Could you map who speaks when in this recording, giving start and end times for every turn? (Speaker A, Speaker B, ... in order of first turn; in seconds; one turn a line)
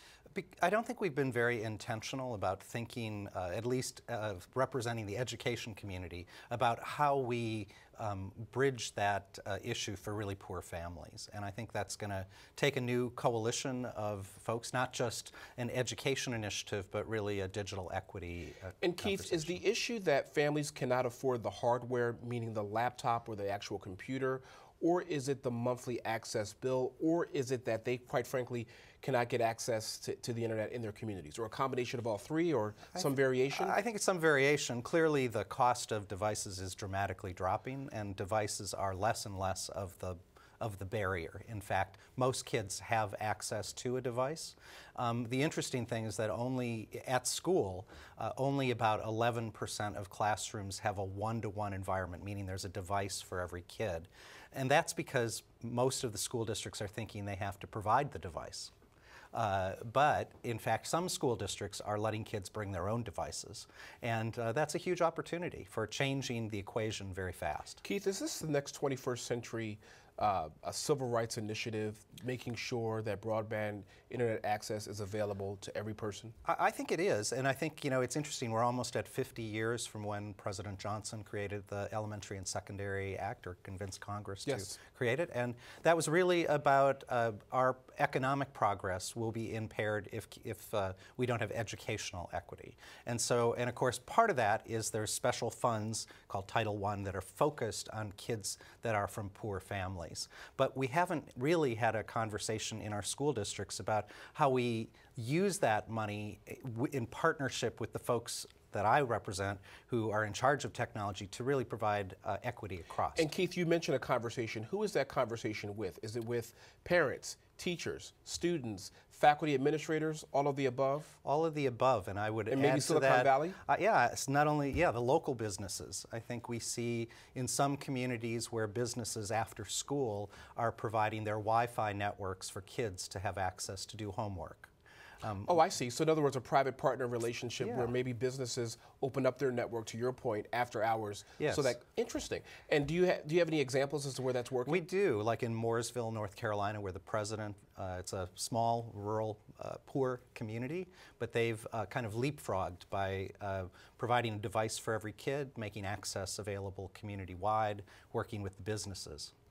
Speaker A: 0.3-19.6
Speaker B: 18.8-33.8
Speaker A: 32.9-58.7
Speaker A: 59.3-67.8
Speaker B: 67.8-76.3
Speaker A: 76.4-113.3
Speaker B: 84.4-84.8
Speaker B: 113.1-121.2
Speaker A: 121.2-134.7
Speaker B: 122.5-123.6
Speaker A: 135.2-135.6
Speaker B: 135.5-144.8
Speaker A: 137.6-137.9
Speaker A: 141.4-141.7
Speaker A: 144.7-159.3